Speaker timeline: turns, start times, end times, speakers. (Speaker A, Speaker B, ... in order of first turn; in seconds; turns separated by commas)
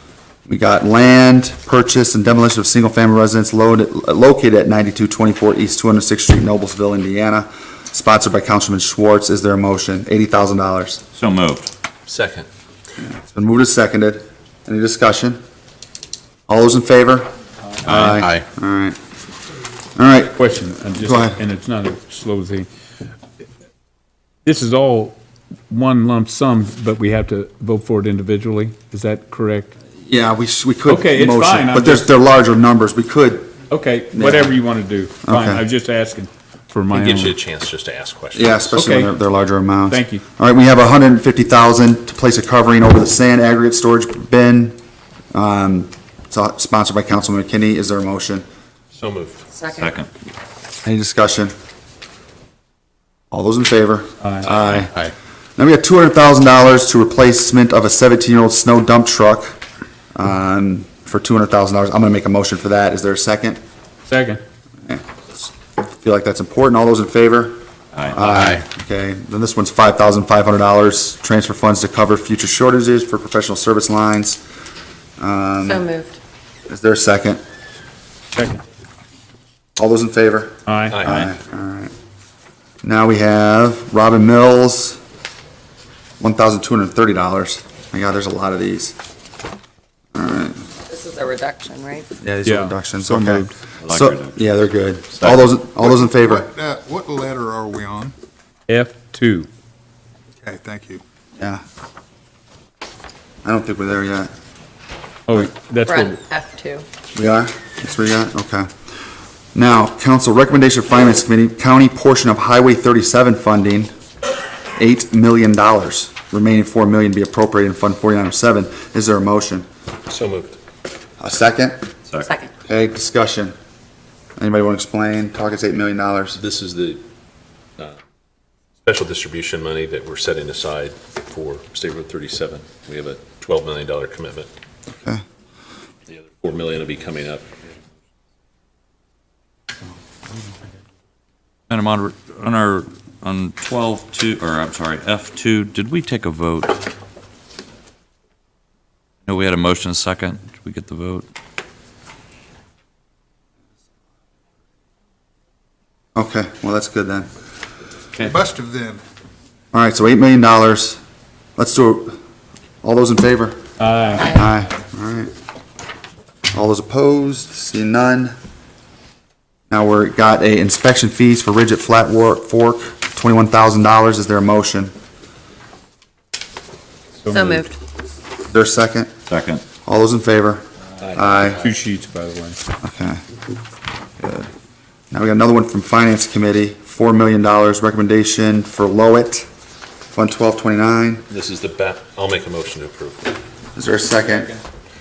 Speaker A: 0.5-11.0, Speaker B: 11.1-11.7, Speaker C: 12.1-12.5, Speaker A: 13.0-15.4, Speaker A: 16.5-17.3, Speaker A: 17.8-19.0, Speaker C: 17.9-18.5, Speaker A: 20.0-20.4, Speaker D: 20.3-22.7, Speaker A: 21.0-21.4, Speaker D: 24.4-25.2, Speaker D: 25.7-29.8, Speaker A: 30.1-33.5, Speaker D: 30.9-32.1, Speaker D: 33.7-37.3, Speaker A: 34.1-34.5, Speaker A: 35.2-35.6, Speaker C: 36.9-38.7, Speaker A: 38.3-44.8, Speaker D: 38.7-39.1, Speaker D: 39.9-40.2, Speaker A: 45.3-48.5, Speaker C: 49.0-49.5, Speaker E: 49.5-49.9, Speaker B: 49.7-50.1, Speaker A: 50.8-51.5, Speaker A: 53.3-54.9, Speaker D: 54.2-54.5, Speaker C: 54.5-55.1, Speaker A: 55.6-59.6, Speaker A: 60.1-63.6, Speaker D: 64.1-64.4, Speaker A: 64.8-67.6, Speaker A: 68.1-74.4, Speaker C: 68.2-68.6, Speaker A: 75.2-75.9, Speaker E: 75.6-76.2, Speaker A: 76.7-77.4, Speaker D: 78.3-78.6, Speaker A: 79.8-81.9, Speaker D: 80.7-81.0, Speaker A: 82.8-85.0, Speaker A: 86.2-89.0, Speaker A: 90.1-90.6, Speaker E: 90.9-92.1, Speaker A: 92.2-96.5, Speaker D: 92.5-93.5, Speaker B: 93.8-94.4, Speaker B: 95.2-95.5, Speaker F: 95.8-98.1, Speaker D: 98.7-99.5, Speaker F: 100.4-101.0, Speaker A: 103.5-104.3, Speaker D: 105.3-106.2, Speaker E: 105.8-106.9, Speaker A: 107.2-108.7, Speaker A: 109.5-113.9, Speaker A: 114.8-119.7, Speaker C: 120.1-120.6, Speaker A: 121.2-121.8, Speaker E: 122.3-122.5, Speaker A: 122.7-123.5, Speaker A: 124.4-126.4, Speaker C: 126.3-127.0, Speaker C: 128.8-134.5, Speaker C: 136.1-137.5, Speaker B: 141.7-146.8, Speaker B: 149.2-151.2, Speaker A: 156.2-157.3, Speaker F: 158.2-159.0, Speaker A: 159.7-161.0, Speaker A: 161.6-162.2, Speaker A: 162.8-163.6, Speaker D: 163.8-164.3, Speaker A: 164.2-165.3, Speaker A: 166.5-168.3, Speaker A: 169.7-174.9, Speaker D: 177.2-177.6, Speaker E: 177.2-177.8, Speaker A: 178.5-179.1, Speaker B: 179.3-179.6, Speaker A: 179.8-181.7, Speaker C: 181.0-181.7, Speaker D: 181.6-182.6, Speaker A: 182.8-183.2, Speaker A: 184.2-184.5, Speaker A: 185.1-189.5, Speaker A: 190.1-191.2, Speaker C: 191.3-193.3, Speaker A: 193.8-194.6